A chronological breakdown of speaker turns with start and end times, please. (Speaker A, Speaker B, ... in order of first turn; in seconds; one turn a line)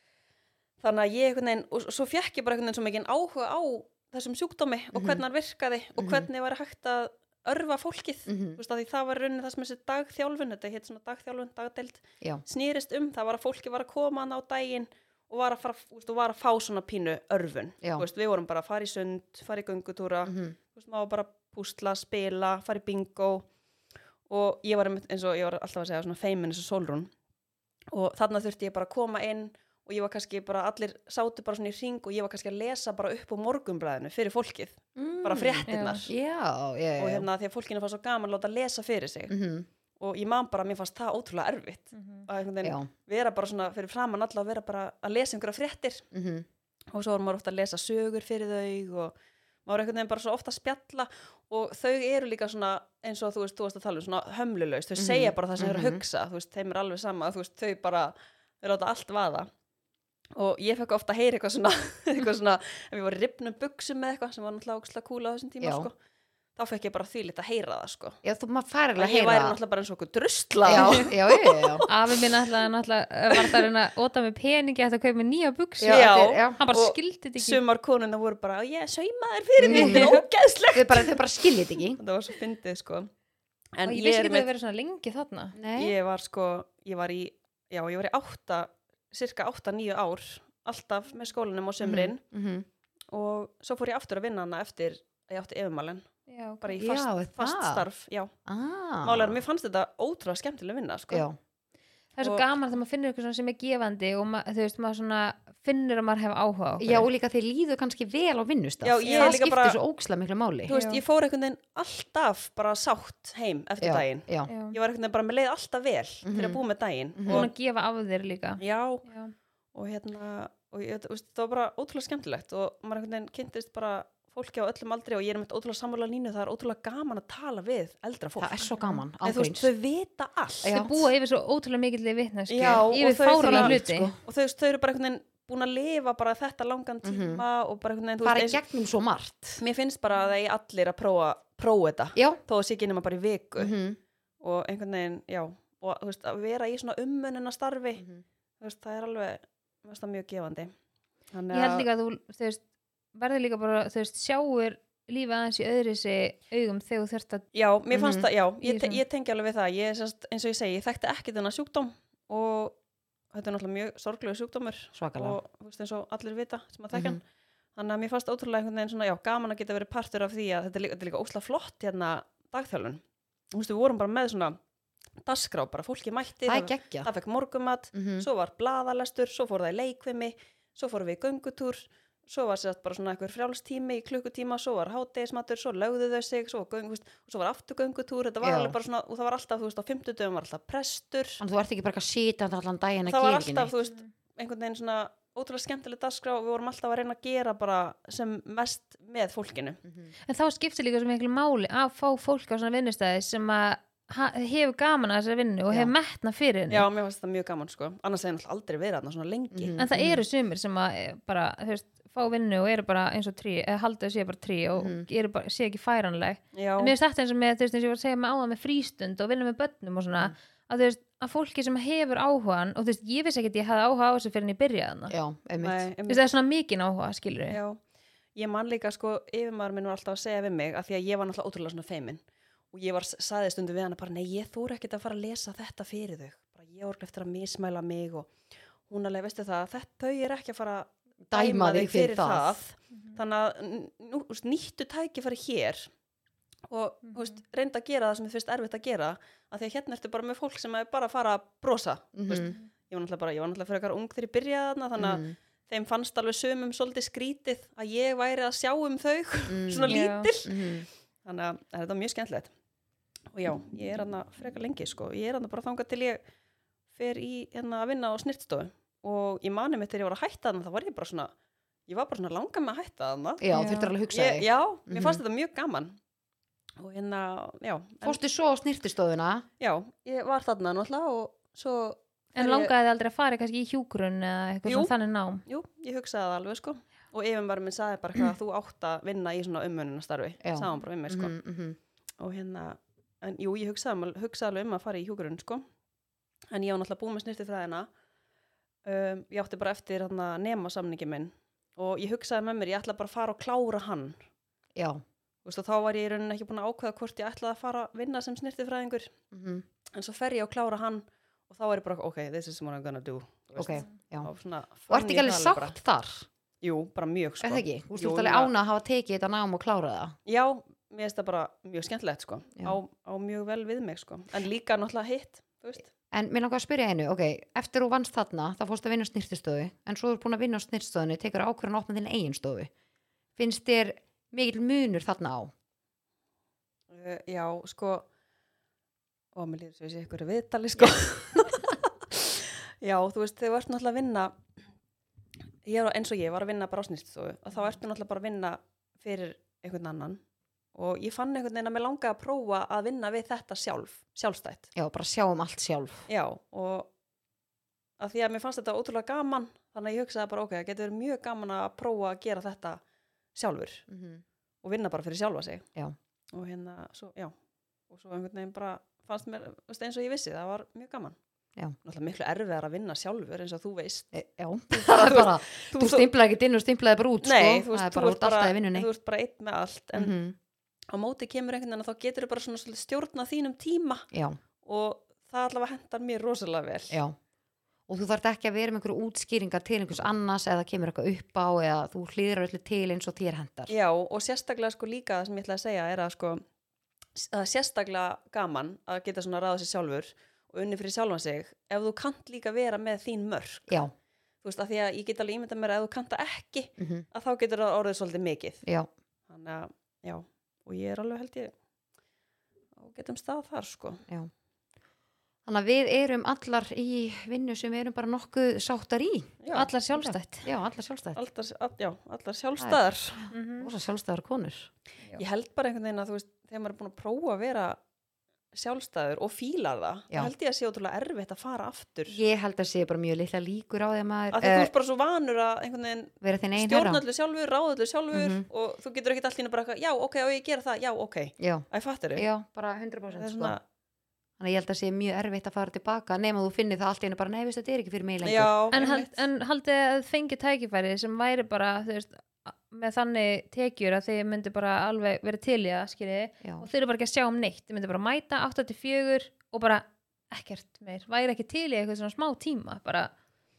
Speaker A: 0.8-23.5
Speaker B: 4.9-5.2
Speaker B: 6.0-6.3
Speaker B: 8.3-8.6
Speaker B: 17.8-18.1
Speaker B: 20.2-20.6
Speaker A: 24.3-27.1
Speaker A: 27.9-36.1
Speaker B: 35.0-37.3
Speaker C: 35.7-36.1
Speaker A: 37.0-39.3
Speaker B: 39.3-39.7
Speaker A: 40.0-46.0
Speaker C: 41.9-42.2
Speaker B: 42.6-42.9
Speaker B: 46.1-46.5
Speaker A: 46.9-49.1
Speaker A: 49.6-59.5
Speaker B: 55.0-56.0
Speaker A: 60.4-65.9
Speaker B: 65.6-65.9
Speaker A: 66.5-68.2
Speaker B: 68.2-69.6
Speaker A: 69.0-71.9
Speaker B: 70.6-71.8
Speaker C: 70.7-71.1
Speaker C: 71.9-77.6
Speaker A: 73.3-73.6
Speaker B: 75.8-76.6
Speaker A: 75.9-83.1
Speaker B: 79.6-80.1
Speaker C: 79.7-80.2
Speaker B: 80.7-82.0
Speaker A: 83.8-84.5
Speaker C: 83.8-85.5
Speaker B: 85.5-86.0
Speaker A: 85.8-92.2
Speaker B: 91.8-92.7
Speaker A: 93.1-96.0
Speaker C: 96.3-96.7
Speaker A: 96.6-98.3
Speaker B: 96.8-97.8
Speaker B: 98.5-99.4
Speaker A: 99.0-101.2
Speaker B: 101.1-101.4
Speaker C: 102.2-107.0
Speaker A: 102.2-102.5
Speaker B: 106.8-110.7
Speaker A: 108.8-109.8
Speaker C: 109.0-109.3
Speaker C: 110.7-111.0
Speaker A: 110.7-117.5
Speaker B: 113.8-114.5
Speaker C: 114.5-114.8
Speaker B: 116.2-116.6
Speaker B: 117.2-117.5
Speaker C: 117.3-119.3
Speaker A: 118.6-119.0
Speaker A: 119.7-128.7
Speaker B: 128.4-129.7
Speaker A: 129.2-130.7
Speaker B: 130.6-131.1
Speaker C: 130.7-134.1
Speaker A: 132.5-138.6
Speaker B: 132.6-134.2
Speaker B: 137.0-137.4
Speaker B: 138.2-139.6
Speaker A: 139.6-143.7
Speaker B: 143.6-144.0
Speaker A: 144.4-148.0
Speaker B: 148.0-148.2
Speaker A: 148.6-150.7
Speaker A: 151.3-151.9
Speaker C: 151.5-152.6
Speaker C: 153.1-157.4
Speaker A: 157.5-162.8
Speaker B: 157.9-158.3
Speaker C: 158.6-159.0
Speaker A: 163.3-167.2
Speaker B: 164.9-165.4
Speaker B: 166.9-167.2
Speaker A: 167.8-173.0
Speaker A: 173.5-174.6
Speaker A: 175.2-191.4
Speaker B: 176.4-177.1
Speaker B: 177.9-178.3
Speaker B: 188.4-188.8
Speaker B: 191.4-193.7
Speaker A: 193.1-199.8
Speaker C: 200.2-206.9
Speaker A: 206.7-209.8
Speaker B: 209.5-210.2
Speaker C: 209.8-225.1
Speaker B: 214.8-215.1
Speaker A: 216.5-216.9
Speaker B: 225.1-225.8
Speaker A: 225.6-226.2
Speaker C: 226.1-227.6
Speaker A: 227.5-227.8
Speaker A: 228.3-232.2
Speaker A: 232.7-238.3
Speaker A: 238.9-245.9
Speaker B: 241.3-242.6
Speaker A: 246.7-262.5
Speaker B: 252.1-252.5
Speaker B: 255.0-255.3
Speaker B: 259.5-260.9
Speaker C: 259.9-260.3
Speaker A: 263.3-266.2
Speaker A: 266.9-271.3
Speaker A: 271.9-273.4
Speaker B: 273.4-275.2
Speaker C: 273.5-273.9
Speaker A: 274.1-275.9
Speaker A: 276.8-278.2
Speaker B: 278.0-279.4
Speaker A: 279.6-282.7
Speaker C: 282.4-285.4
Speaker A: 284.6-284.9
Speaker A: 285.4-291.3
Speaker B: 290.4-291.8
Speaker A: 292.2-295.6
Speaker A: 296.5-297.9
Speaker A: 298.8-304.2
Speaker B: 304.8-305.0
Speaker A: 305.4-309.1
Speaker B: 309.3-309.6
Speaker A: 309.9-315.7
Speaker B: 313.6-314.3
Speaker B: 314.9-316.3
Speaker A: 316.6-318.5
Speaker B: 317.4-320.1
Speaker A: 320.2-325.9
Speaker B: 326.1-332.7
Speaker B: 333.4-335.5
Speaker A: 336.9-338.0
Speaker A: 339.3-344.3
Speaker A: 345.6-350.2
Speaker A: 350.7-354.7
Speaker B: 354.7-356.1
Speaker A: 356.1-356.9
Speaker A: 358.0-362.8
Speaker A: 363.4-363.8
Speaker B: 363.9-364.2
Speaker A: 364.6-365.6
Speaker A: 366.3-367.3
Speaker A: 367.9-371.1
Speaker A: 371.8-374.1
Speaker B: 374.1-378.9
Speaker A: 374.7-376.1
Speaker A: 377.2-380.1
Speaker B: 379.9-380.4
Speaker A: 380.9-384.1
Speaker B: 384.1-384.4
Speaker A: 384.6-387.0
Speaker B: 386.9-387.1
Speaker B: 387.9-393.7
Speaker A: 393.7-396.4
Speaker A: 397.1-403.9
Speaker A: 404.4-408.6
Speaker B: 406.8-407.1
Speaker A: 409.3-411.5
Speaker A: 412.8-414.0
Speaker B: 415.4-419.3
Speaker A: 419.4-419.7
Speaker C: 419.5-420.5
Speaker B: 419.9-421.2
Speaker A: 421.1-423.2
Speaker B: 422.6-424.7
Speaker C: 423.3-423.7
Speaker A: 425.2-427.8
Speaker A: 428.5-432.2
Speaker B: 432.1-434.7
Speaker A: 434.3-442.2
Speaker B: 436.2-437.0
Speaker B: 438.1-438.4
Speaker B: 441.4-443.6
Speaker A: 443.1-443.6
Speaker B: 444.4-448.7
Speaker A: 448.2-449.2
Speaker C: 448.7-463.1